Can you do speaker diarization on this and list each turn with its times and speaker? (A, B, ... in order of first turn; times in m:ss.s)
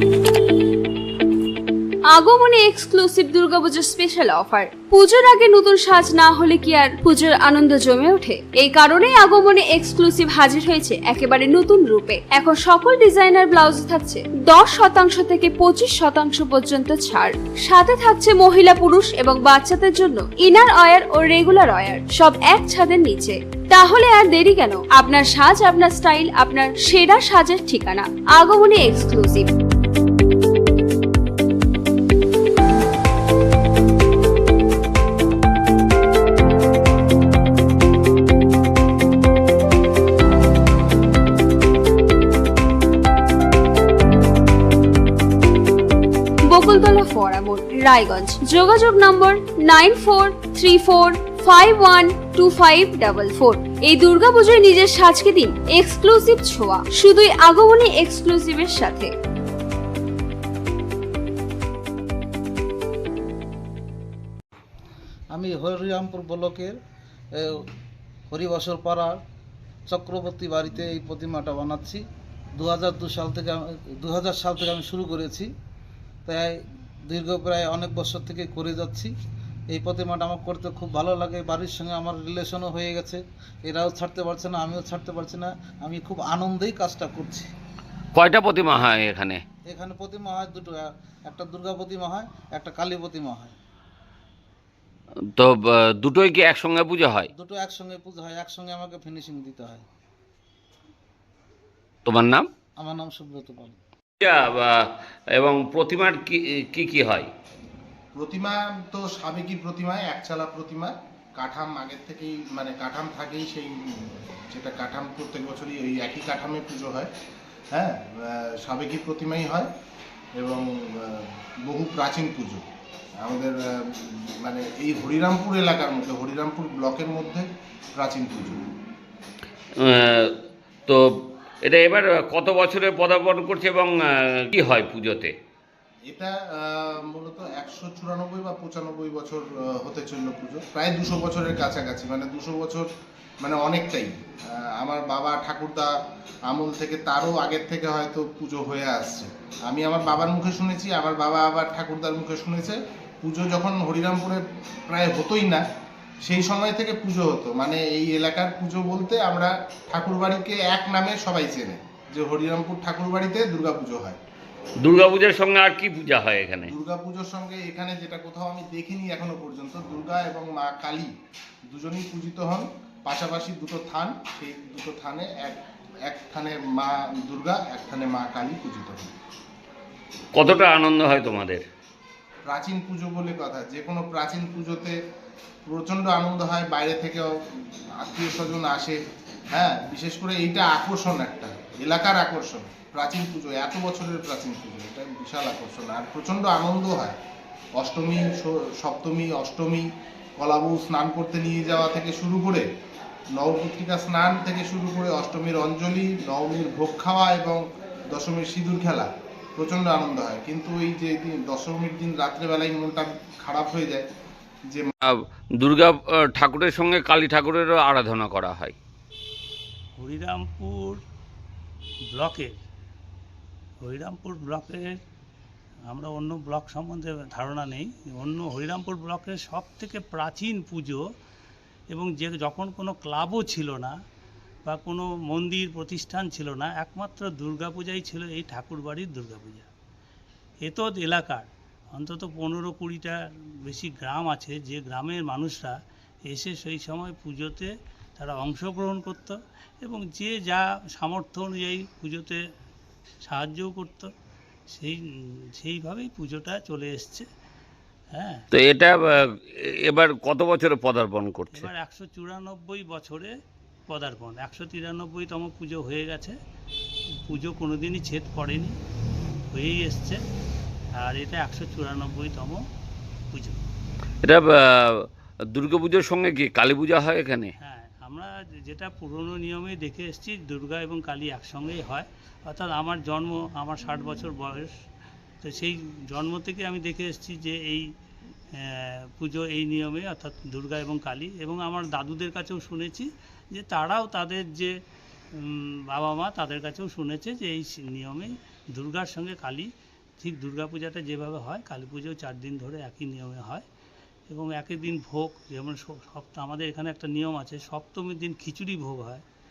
0:02.1-0:29.5 A
0:46.4-0:59.1 A
1:05.3-1:06.8 B
1:07.4-1:07.6 B
1:08.3-1:09.2 B
1:09.9-1:12.0 B
1:12.6-1:15.5 B
1:16.2-1:16.6 B
1:17.1-1:19.1 B
1:19.7-1:27.5 B
1:28.1-1:29.4 C
1:29.7-1:33.5 B
1:35.4-1:37.3 C
1:37.3-1:39.8 B
1:42.0-1:42.5 C
1:42.8-1:43.8 B
1:44.2-1:47.3 C
1:48.1-1:57.1 D
1:57.7-1:59.7 D
2:00.4-2:02.6 D
2:03.2-2:08.6 D
2:09.8-2:10.4 C
2:11.6-2:15.3 C
2:16.1-2:22.8 D
2:23.4-2:25.9 D
2:26.5-2:35.6 D
2:36.2-2:44.2 D
2:44.8-2:46.7 C
2:46.7-2:51.1 D
2:51.7-2:59.1 D
3:00.3-3:01.6 C
3:02.5-3:04.9 D
3:05.6-3:07.3 D
3:08.0-3:09.0 D
3:09.5-3:17.2 D
3:17.8-3:19.8 D
3:20.4-3:22.6 D
3:23.4-3:34.0 D
3:35.0-3:38.8 C
3:40.0-3:41.0 E
3:42.1-3:42.5 E
3:43.8-3:44.9 E
3:45.9-3:51.0 E
3:51.9-3:54.0 E
3:54.6-3:59.7 E
4:00.6-4:12.4 E
4:13.2-4:14.1 E
4:14.7-4:17.2 E
4:18.1-4:18.4 E
4:18.5-4:21.7 C
4:21.5-4:23.3 E
4:23.9-4:26.4 E
4:27.2-4:28.8 E
4:29.5-4:30.2 E
4:31.0-4:32.6 E
4:33.3-4:33.7 E
4:34.2-4:37.5 C
4:37.6-4:44.7 E
4:45.4-4:47.9 E
4:48.6-4:54.7 E
4:55.3-5:03.6 E
5:04.3-5:09.2 E